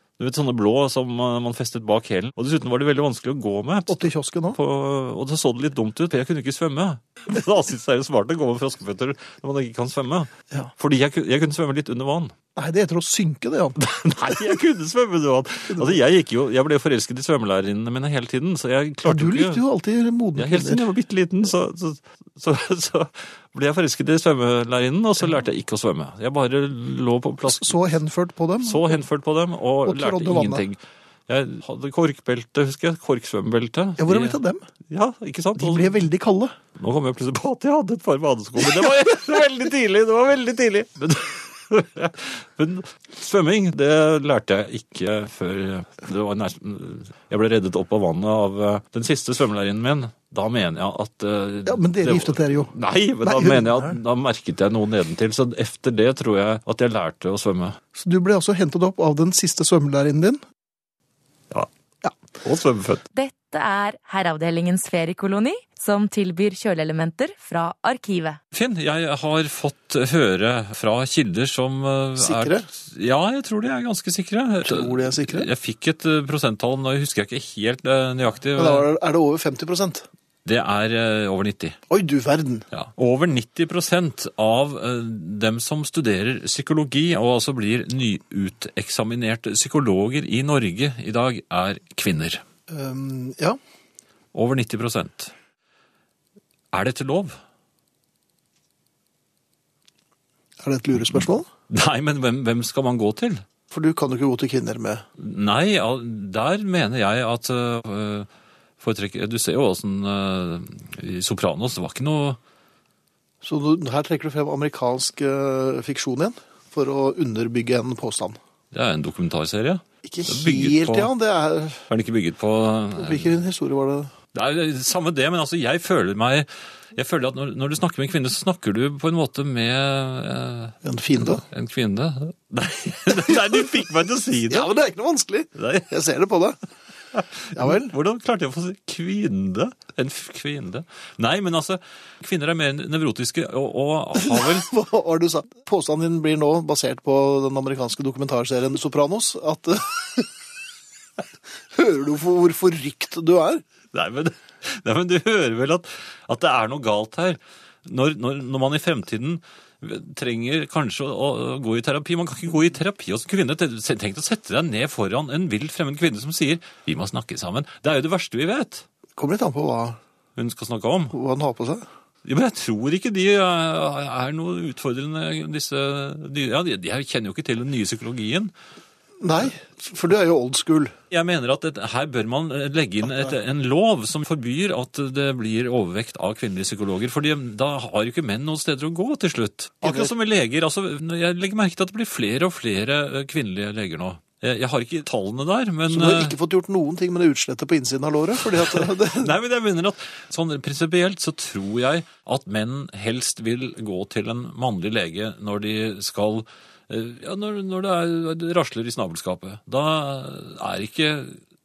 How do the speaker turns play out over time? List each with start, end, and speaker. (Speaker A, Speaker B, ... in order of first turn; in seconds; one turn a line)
Speaker A: 0.2-12.3
Speaker B: 3.9-4.6
Speaker B: 12.6-13.8
Speaker A: 13.8-19.6
Speaker B: 15.7-16.0
Speaker B: 19.0-20.9
Speaker A: 20.4-27.9
Speaker B: 27.5-29.0
Speaker A: 28.6-36.0
Speaker B: 29.8-30.7
Speaker B: 34.0-34.6
Speaker B: 35.5-36.5
Speaker A: 36.8-57.8
Speaker B: 51.6-54.0
Speaker B: 57.9-60.4
Speaker A: 62.4-63.0
Speaker C: 63.1-68.4
Speaker A: 68.5-78.9
Speaker B: 72.2-72.7
Speaker B: 74.6-75.5
Speaker B: 78.5-80.0
Speaker A: 80.4-81.8
Speaker B: 81.9-82.7
Speaker A: 82.7-92.4
Speaker B: 92.7-93.6
Speaker A: 94.3-95.3
Speaker A: 96.7-97.3
Speaker B: 100.6-101.5
Speaker A: 101.1-103.4
Speaker B: 103.7-105.0
Speaker A: 105.2-108.3
Speaker A: 108.8-112.4
Speaker B: 113.4-118.4
Speaker A: 118.7-121.1
Speaker B: 120.0-121.8
Speaker A: 121.9-123.4
Speaker B: 123.0-124.1
Speaker A: 124.3-134.7
Speaker B: 130.8-131.4
Speaker B: 134.5-136.6
Speaker A: 135.6-135.9
Speaker A: 137.1-144.7
Speaker B: 137.5-137.9
Speaker B: 144.2-150.3
Speaker B: 151.7-153.6
Speaker A: 153.9-168.8
Speaker B: 169.2-170.0
Speaker A: 170.3-171.1
Speaker B: 171.1-171.8
Speaker A: 172.2-178.5
Speaker B: 179.2-180.9
Speaker A: 181.1-196.3
Speaker B: 189.8-190.1
Speaker B: 195.9-199.3
Speaker A: 198.4-211.4